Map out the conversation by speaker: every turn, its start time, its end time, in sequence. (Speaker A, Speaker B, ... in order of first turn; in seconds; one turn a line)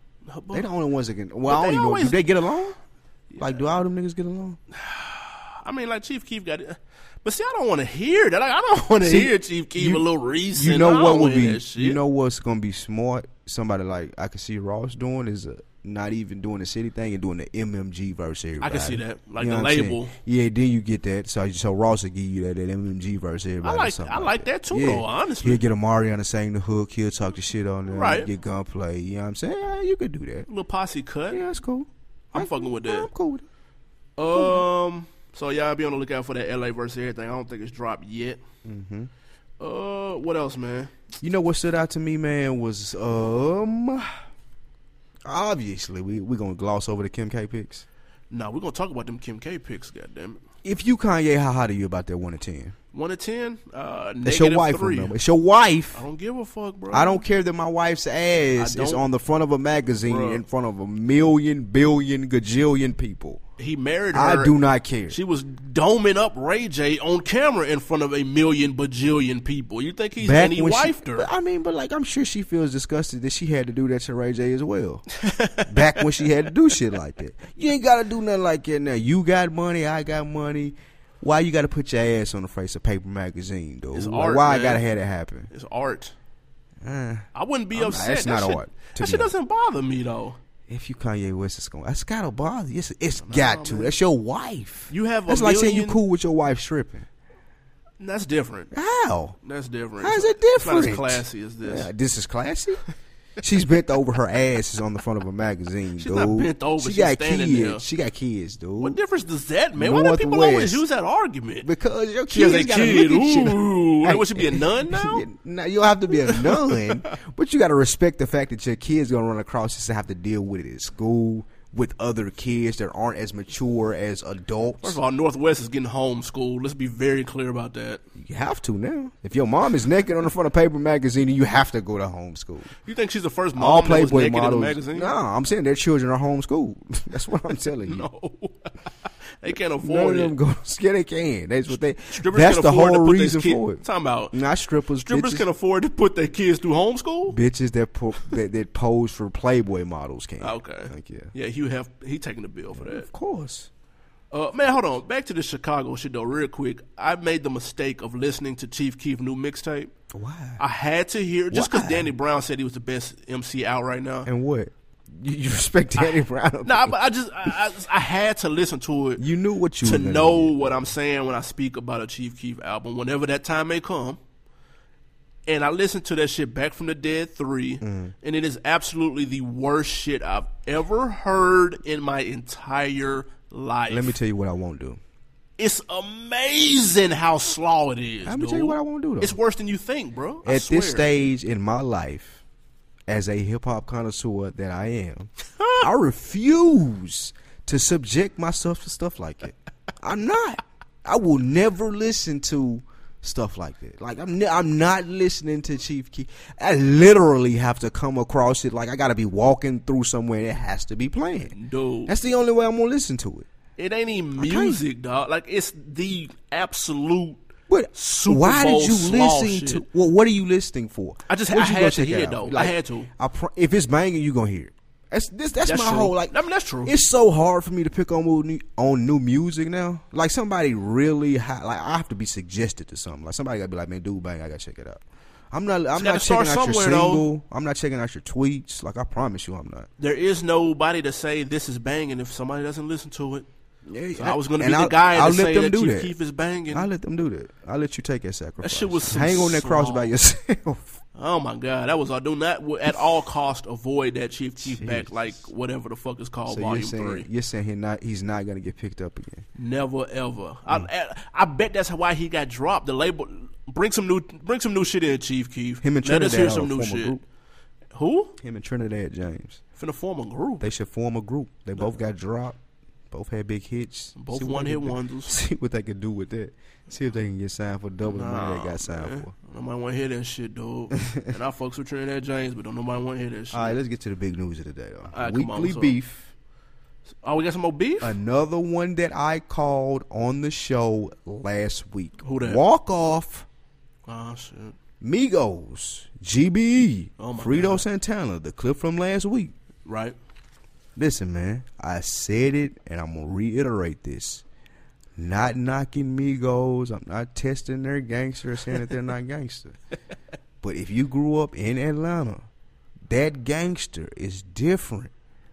Speaker A: 0.3-0.7
Speaker B: 0.5-2.8
Speaker A: 1.5-2.2
Speaker A: 3.3-3.6
Speaker B: 3.4-4.6
Speaker A: 4.7-12.0
Speaker B: 9.0-30.5
Speaker A: 18.6-20.1
Speaker A: 23.6-25.6
Speaker A: 27.9-28.3
Speaker A: 30.5-31.4
Speaker B: 31.3-33.4
Speaker A: 32.3-33.1
Speaker A: 34.2-38.4
Speaker B: 34.3-34.6
Speaker B: 38.6-39.1
Speaker A: 39.6-40.9
Speaker B: 41.2-44.1
Speaker B: 45.2-47.8
Speaker A: 48.3-50.4
Speaker B: 50.6-52.7
Speaker A: 52.9-55.1
Speaker B: 54.2-56.0
Speaker A: 55.9-57.2
Speaker B: 56.9-63.4
Speaker A: 58.6-59.0
Speaker A: 60.0-60.4
Speaker A: 63.6-64.5
Speaker B: 64.1-65.2
Speaker A: 65.1-71.3
Speaker B: 70.2-75.0
Speaker A: 75.2-76.1
Speaker B: 75.7-85.5
Speaker A: 83.9-84.8
Speaker A: 85.5-86.1
Speaker B: 86.8-89.3
Speaker A: 87.3-90.4
Speaker B: 90.7-97.1
Speaker A: 93.2-94.0
Speaker A: 94.9-96.0
Speaker A: 98.0-98.7
Speaker B: 98.7-99.3
Speaker A: 99.4-101.9
Speaker B: 100.0-102.8
Speaker B: 103.4-109.0
Speaker A: 106.0-107.8
Speaker A: 108.8-111.7
Speaker B: 109.7-110.8
Speaker B: 111.6-125.0
Speaker A: 112.3-115.2
Speaker A: 116.2-117.1
Speaker A: 124.8-128.0
Speaker B: 128.2-132.7
Speaker A: 132.8-135.1
Speaker B: 133.6-138.1
Speaker A: 137.9-138.7
Speaker A: 139.4-140.3
Speaker B: 139.8-145.4
Speaker A: 142.1-144.4
Speaker A: 145.1-147.4
Speaker B: 147.3-151.3
Speaker A: 150.4-153.1
Speaker B: 152.7-153.7
Speaker A: 154.3-159.9
Speaker B: 160.1-160.6
Speaker A: 160.6-164.3
Speaker B: 161.5-162.1
Speaker B: 164.2-166.9
Speaker A: 166.0-169.2
Speaker B: 169.2-170.7
Speaker A: 169.8-174.2
Speaker A: 175.5-184.1
Speaker B: 177.8-178.1
Speaker B: 183.9-185.0
Speaker A: 185.6-191.1
Speaker B: 188.2-189.4
Speaker B: 190.4-192.4
Speaker B: 193.1-211.5
Speaker A: 195.6-195.9
Speaker A: 211.5-212.1
Speaker B: 212.1-213.5
Speaker A: 213.8-217.4
Speaker B: 214.4-214.8
Speaker B: 217.7-239.9
Speaker A: 217.9-219.8
Speaker A: 221.3-223.1
Speaker A: 225.6-226.9
Speaker A: 235.9-237.3
Speaker A: 240.0-243.4
Speaker B: 243.9-246.1
Speaker A: 244.1-246.9
Speaker B: 246.7-251.0
Speaker A: 248.6-250.1
Speaker A: 251.1-257.3
Speaker B: 254.6-255.2
Speaker B: 256.5-259.4
Speaker A: 259.6-267.2
Speaker B: 265.8-267.2
Speaker A: 267.9-268.4
Speaker B: 268.4-269.6
Speaker A: 269.8-270.6
Speaker B: 270.6-272.6
Speaker B: 273.1-279.3
Speaker A: 274.1-275.4
Speaker A: 278.0-283.8
Speaker B: 280.9-281.3
Speaker B: 283.5-286.3
Speaker A: 285.1-286.0
Speaker A: 287.2-288.1
Speaker B: 288.0-293.4
Speaker A: 292.2-292.6
Speaker A: 294.1-294.8
Speaker B: 295.0-299.5
Speaker A: 297.2-297.9
Speaker A: 299.8-300.1
Speaker B: 300.9-304.4
Speaker B: 305.1-309.8
Speaker B: 310.6-312.4
Speaker B: 313.1-315.1